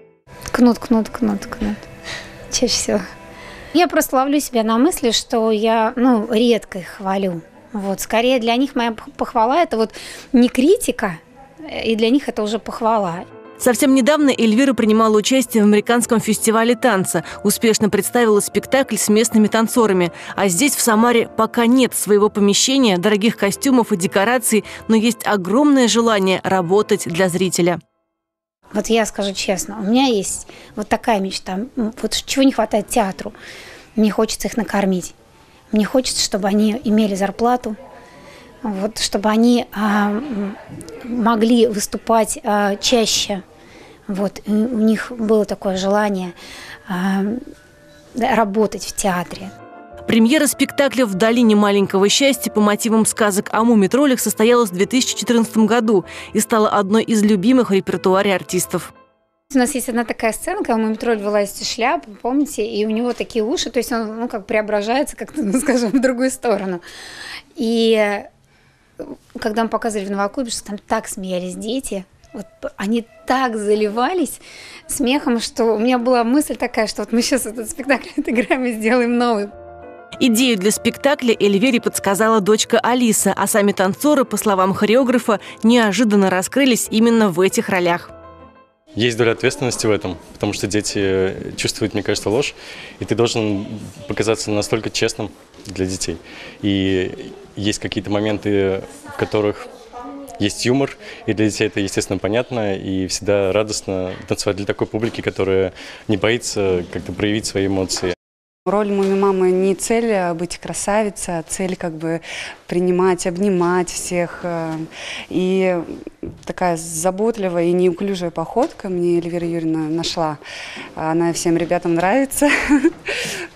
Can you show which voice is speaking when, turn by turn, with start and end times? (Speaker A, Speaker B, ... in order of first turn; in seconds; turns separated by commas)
Speaker A: 0.5-1.8, Speaker A: 2.5-3.0, Speaker A: 3.7-13.2, Speaker B: 13.6-27.8, Speaker A: 28.7-33.3, Speaker A: 34.0-35.1, Speaker A: 35.7-37.7, Speaker A: 38.6-43.4, Speaker A: 44.1-46.3, Speaker A: 46.9-47.4, Speaker A: 48.1-49.5, Speaker B: 50.0-58.9, Speaker A: 59.5-66.8, Speaker A: 67.5-68.3, Speaker A: 69.0-79.5, Speaker B: 80.2-88.1, Speaker C: 89.0-99.6, Speaker C: 100.4-108.1, Speaker D: 108.7-115.9, Speaker D: 116.4-120.4, Speaker D: 121.0-122.9